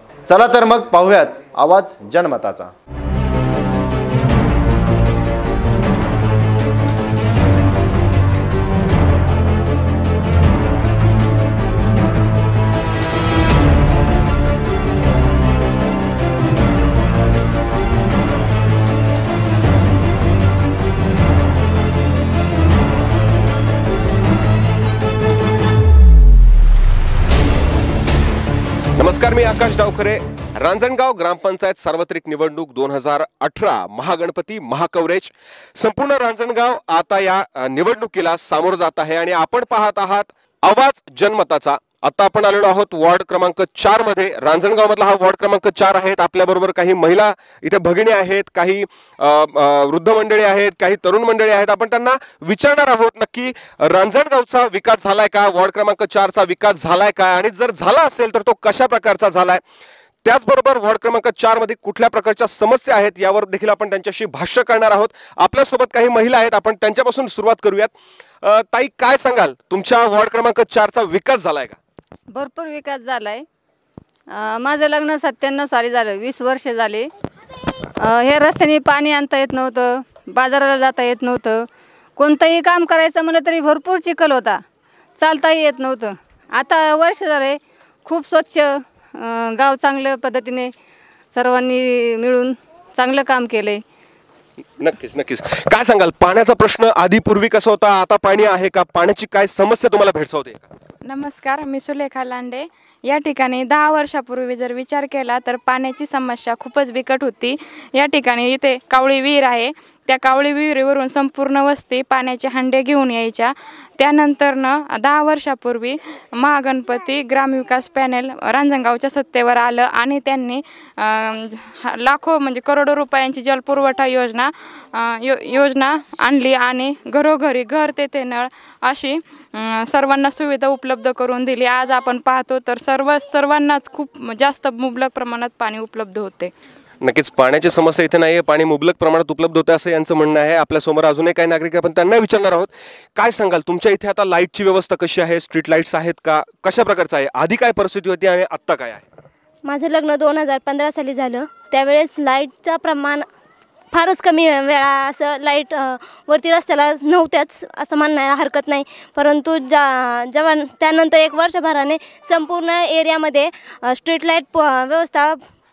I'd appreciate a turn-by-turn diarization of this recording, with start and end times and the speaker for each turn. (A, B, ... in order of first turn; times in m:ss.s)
0:00.3-0:02.7 A
0:29.0-0:59.6 B
1:00.2-1:07.9 B
1:08.4-1:11.8 B
1:12.3-1:13.4 C
1:14.4-1:17.1 C
1:18.0-1:21.6 C
1:22.2-1:24.6 C
1:25.2-1:28.7 C
1:29.6-1:30.7 C
1:31.4-1:33.8 C
1:34.8-1:40.7 B
1:41.1-2:16.5 D
2:17.0-2:29.0 B
2:29.6-2:33.3 E
2:33.9-2:45.4 E